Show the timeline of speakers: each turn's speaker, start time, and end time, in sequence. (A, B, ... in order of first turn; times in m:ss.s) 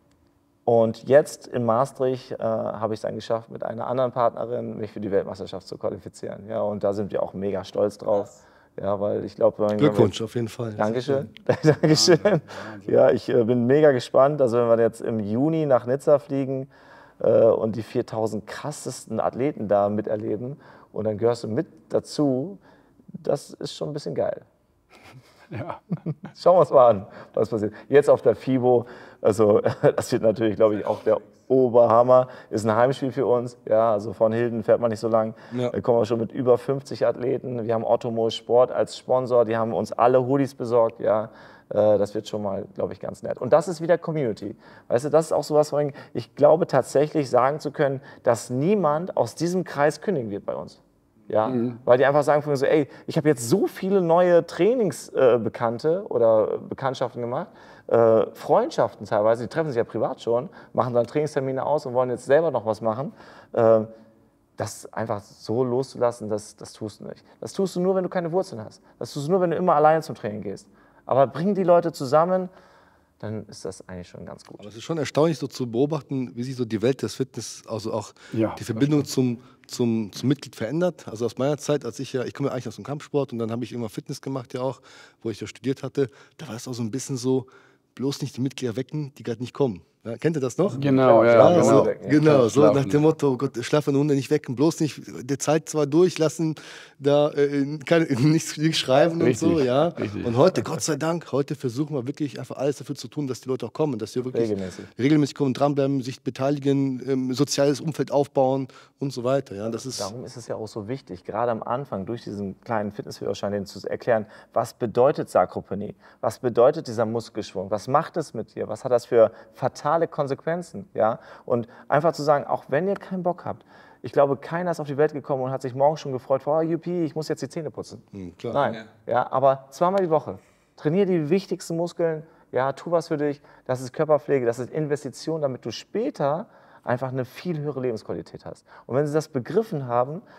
0:00.6-0:10.1 A
0:09.8-0:11.3 B
0:10.8-0:22.6 A
0:11.8-0:13.0 C
0:23.1-0:24.4 A
0:25.5-0:25.8 C
0:26.3-1:03.9 A
0:51.4-0:51.8 C
1:04.6-1:12.5 A
1:13.2-1:14.6 A
1:14.6-1:50.1 B
1:18.3-1:18.8 C
1:30.7-1:32.4 A
1:30.7-1:33.0 C
1:39.2-1:40.3 C
1:44.3-1:44.9 A
1:49.9-2:20.2 A
2:08.1-2:08.7 B